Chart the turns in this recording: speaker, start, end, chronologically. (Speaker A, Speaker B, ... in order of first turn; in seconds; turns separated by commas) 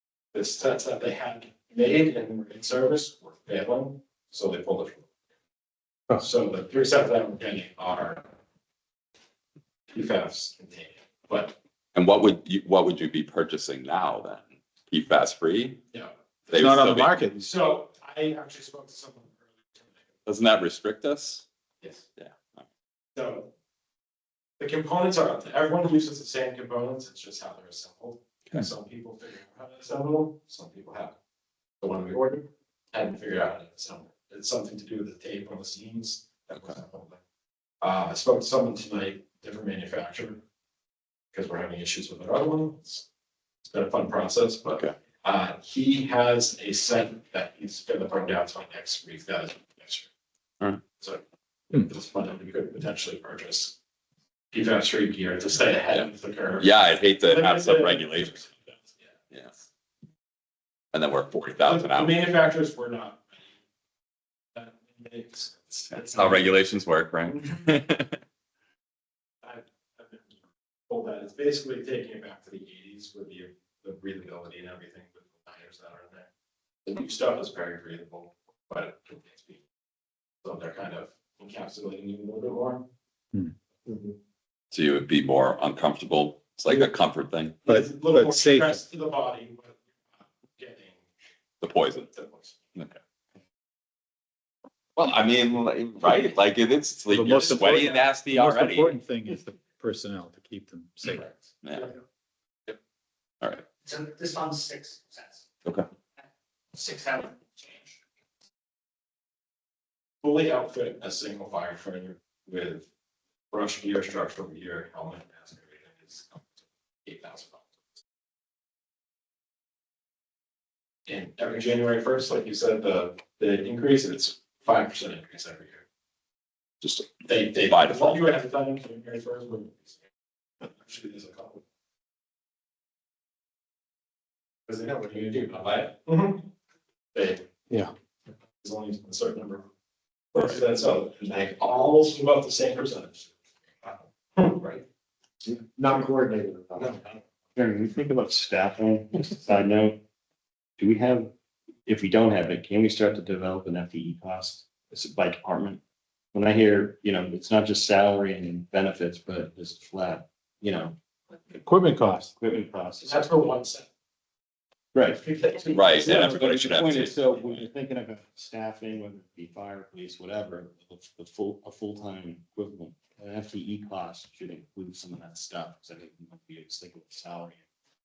Speaker A: 0.3-5.0, Speaker A: 6.2-8.2, Speaker A: 9.9-11.6, Speaker B: 11.9-15.8, Speaker B: 16.5-17.2, Speaker C: 16.5-17.4, Speaker A: 17.4-20.1, Speaker B: 20.2-21.4, Speaker B: 22.2-22.6, Speaker A: 23.1-23.5, Speaker A: 24.6-31.1, Speaker A: 31.8-37.2, Speaker A: 37.8-40.4, Speaker A: 41.3-43.0, Speaker A: 43.6-50.1, Speaker A: 51.8-53.7, Speaker A: 54.5-59.1, Speaker B: 56.6-58.5, Speaker B: 60.9-62.3, Speaker A: 61.7-63.4, Speaker A: 64.5-66.5, Speaker B: 65.9-68.2, Speaker A: 69.4-70.3, Speaker A: 70.9-76.3, Speaker A: 76.8-79.6, Speaker A: 80.4-82.9, Speaker A: 83.9-84.1, Speaker B: 84.7-87.6, Speaker A: 87.7-91.0, Speaker C: 87.7-88.8, Speaker B: 91.6-92.1, Speaker A: 92.0-92.5, Speaker B: 95.0-99.0, Speaker C: 97.1-101.2, Speaker B: 101.6-101.9, Speaker D: 103.8-105.4, Speaker D: 106.7-108.0, Speaker A: 110.2-112.9, Speaker A: 113.5-116.5, Speaker A: 117.0-117.7, Speaker A: 121.1-125.8, Speaker A: 127.2-130.0, Speaker B: 127.6-128.2, Speaker A: 130.6-131.6, Speaker A: 134.7-136.5, Speaker A: 137.1-137.4, Speaker A: 138.6-139.6, Speaker A: 140.3-143.3, Speaker A: 143.8-144.8, Speaker C: 145.8-146.7, Speaker A: 146.7-147.0, Speaker E: 147.5-150.0, Speaker E: 150.8-151.3, Speaker E: 151.8-155.8, Speaker E: 156.3-160.9, Speaker C: 161.5-162.3, Speaker E: 162.3-163.6, Speaker A: 163.0-163.9, Speaker E: 164.9-165.2, Speaker A: 165.1-166.8, Speaker B: 165.7-167.6, Speaker E: 166.0-177.6